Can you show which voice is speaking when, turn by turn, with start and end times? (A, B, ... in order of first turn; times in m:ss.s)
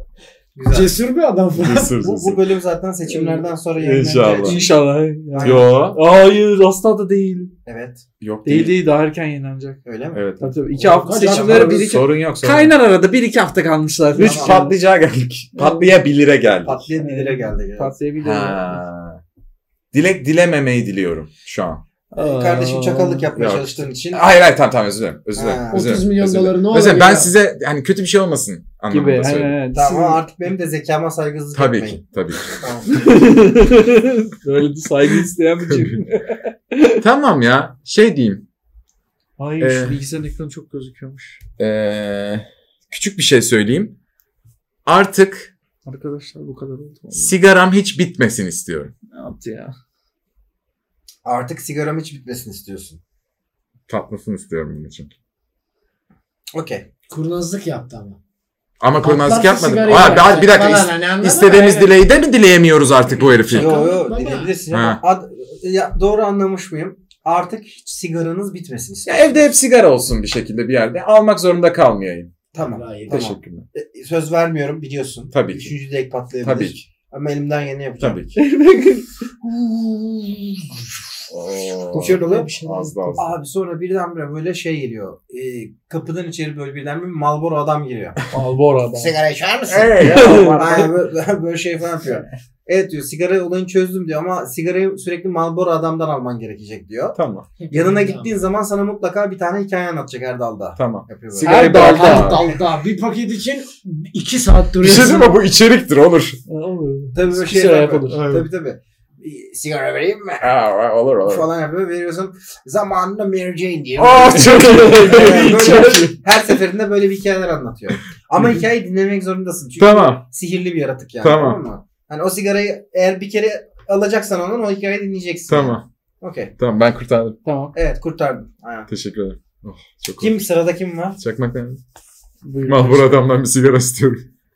0:00.6-0:01.0 A
0:00.7-0:02.0 B
0:01.6-0:02.5 C
0:02.0-0:04.7 A
0:03.1-0:03.4 B
0:03.8-0:04.6 C
0:04.4-0:07.5 D
0:05.3-0:05.8 A
0:05.4-0:06.0 C
0:07.6-0:08.0 A
0:08.2-0:08.7 C
0:08.4-0:09.8 D
0:09.8-0:10.2 A
0:10.1-0:10.5 C
0:10.4-0:14.8 D
0:10.8-0:12.0 B
0:11.2-0:11.8 A
0:11.6-0:12.7 C
0:14.2-0:14.6 A
0:14.2-0:16.9 C
0:15.6-0:15.9 D
0:16.6-0:18.0 A
0:17.0-0:18.8 D
0:18.2-0:19.2 C
0:19.9-0:21.8 C
0:22.1-0:23.3 D
0:22.2-0:24.2 A
0:23.4-0:29.6 C
0:25.3-0:26.0 A
0:25.7-0:27.3 B
0:28.9-0:30.2 D
0:29.7-0:32.0 A
0:31.5-0:32.6 C
0:32.6-0:32.9 A
0:32.9-0:37.0 D
0:35.7-0:36.0 C
0:37.0-0:38.4 C
0:39.4-0:41.4 D
0:39.6-0:40.0 C
0:41.6-0:44.0 C
0:44.8-0:45.5 C
0:45.8-0:47.3 D
0:47.1-0:48.9 C
0:49.1-0:49.7 D
0:51.2-0:53.0 A
0:53.9-0:55.1 C
0:56.5-0:56.9 A
0:57.1-0:58.2 B
0:58.8-1:03.8 C
0:59.0-1:01.9 B
1:03.5-1:04.5 B
1:03.5-1:09.5 A
1:04.7-1:05.0 C
1:09.0-1:12.3 C
1:12.5-1:18.3 A
1:12.6-1:13.2 B
1:13.1-1:13.6 C
1:15.3-1:15.7 C
1:16.4-1:16.9 C
1:18.0-1:18.3 C
1:18.4-1:19.1 D
1:19.4-1:20.7 A
1:21.3-1:23.3 C
1:21.9-1:22.5 A
1:22.2-1:23.2 D
1:23.2-1:28.2 A
1:28.3-1:29.2 D
1:28.9-1:37.2 A
1:29.7-1:30.8 C
1:30.0-1:30.9 D
1:32.0-1:32.4 D
1:37.2-1:37.5 C
1:37.6-1:38.3 B
1:37.7-1:42.5 A
1:40.8-1:42.5 C
1:41.4-1:42.4 D
1:41.4-1:45.4 B
1:44.8-1:46.4 C
1:46.5-1:48.3 D
1:47.1-1:50.5 A
1:48.1-1:48.5 C
1:50.4-1:51.5 C
1:51.3-2:06.5 A
1:54.0-1:56.1 C
1:54.2-1:56.1 D
1:59.8-2:00.2 C
2:01.2-2:01.6 C
2:05.5-2:05.9 C
2:06.6-2:07.4 C
2:07.4-2:07.8 D
2:07.8-2:08.9 A
2:08.9-2:10.3 C
2:10.2-2:11.2 A
2:11.2-2:11.8 C
2:12.4-2:13.1 D
2:12.7-2:14.3 C